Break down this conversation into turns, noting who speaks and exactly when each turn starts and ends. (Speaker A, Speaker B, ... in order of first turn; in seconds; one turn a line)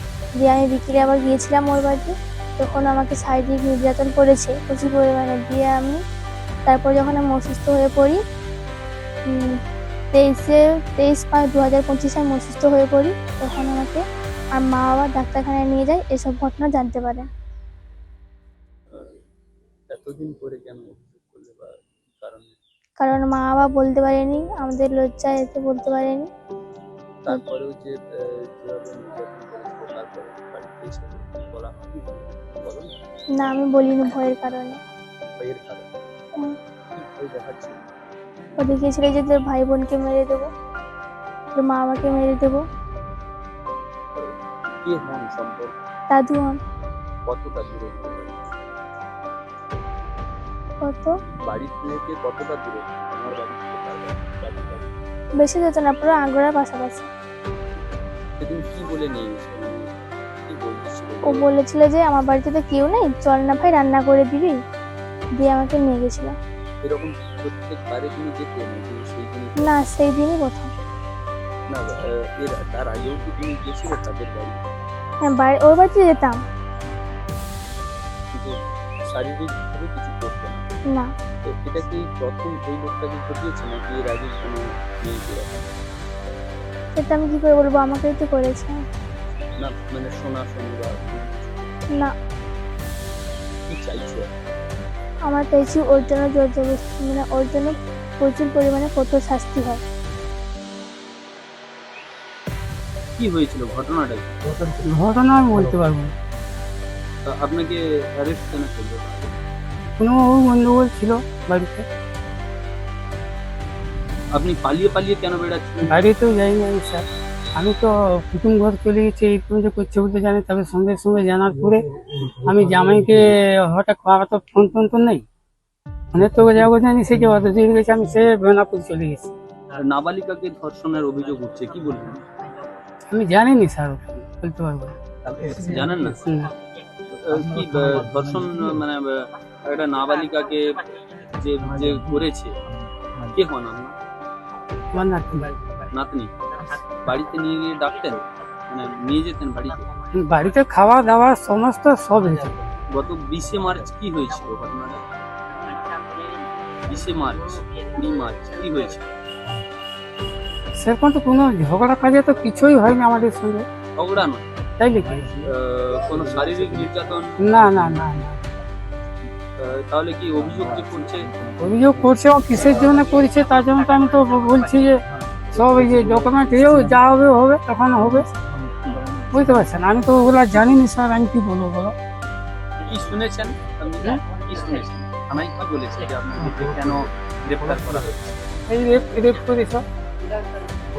Speaker A: 0.4-6.0
Speaker A: 6.7-8.2
Speaker A: 10.1-14.0
Speaker A: 14.6-17.3
Speaker B: 19.9-22.5
Speaker A: 23.0-26.3
Speaker B: 27.3-33.0
Speaker A: 33.4-34.8
Speaker B: 35.4-35.9
Speaker B: 36.9-37.8
Speaker A: 38.6-40.5
Speaker A: 41.5-42.6
Speaker B: 44.2-45.8
Speaker A: 46.1-46.6
Speaker B: 47.3-48.5
Speaker A: 50.8-51.1
Speaker B: 51.5-54.9
Speaker A: 55.4-57.1
Speaker B: 58.4-60.0
Speaker B: 60.5-61.5
Speaker A: 61.2-64.6
Speaker A: 65.4-66.3
Speaker B: 66.8-69.9
Speaker A: 69.6-70.7
Speaker B: 71.7-74.8
Speaker A: 75.2-76.4
Speaker B: 79.1-80.7
Speaker B: 81.5-85.7
Speaker A: 86.9-88.7
Speaker B: 89.6-91.8
Speaker B: 93.7-94.3
Speaker A: 95.3-99.8
Speaker B: 103.2-104.6
Speaker C: 104.8-106.1
Speaker B: 107.3-109.3
Speaker C: 110.0-111.9
Speaker B: 114.3-116.1
Speaker C: 115.9-117.0
Speaker C: 117.6-121.8
Speaker C: 122.4-125.2
Speaker C: 126.1-129.3
Speaker B: 129.8-132.2
Speaker C: 133.1-135.0
Speaker B: 135.2-136.2
Speaker C: 136.1-136.5
Speaker B: 137.1-140.8
Speaker B: 141.4-142.5
Speaker B: 143.3-144.0
Speaker C: 144.9-145.5
Speaker B: 145.9-146.3
Speaker B: 147.0-149.9
Speaker C: 150.1-152.5
Speaker B: 152.9-155.0
Speaker B: 156.9-159.1
Speaker C: 160.8-163.7
Speaker B: 164.0-164.5
Speaker C: 164.8-165.2
Speaker B: 165.4-167.4
Speaker C: 167.4-168.4
Speaker B: 169.6-171.3
Speaker C: 171.6-178.3
Speaker B: 175.5-177.0
Speaker C: 179.3-181.9
Speaker B: 182.8-188.6
Speaker C: 188.7-189.8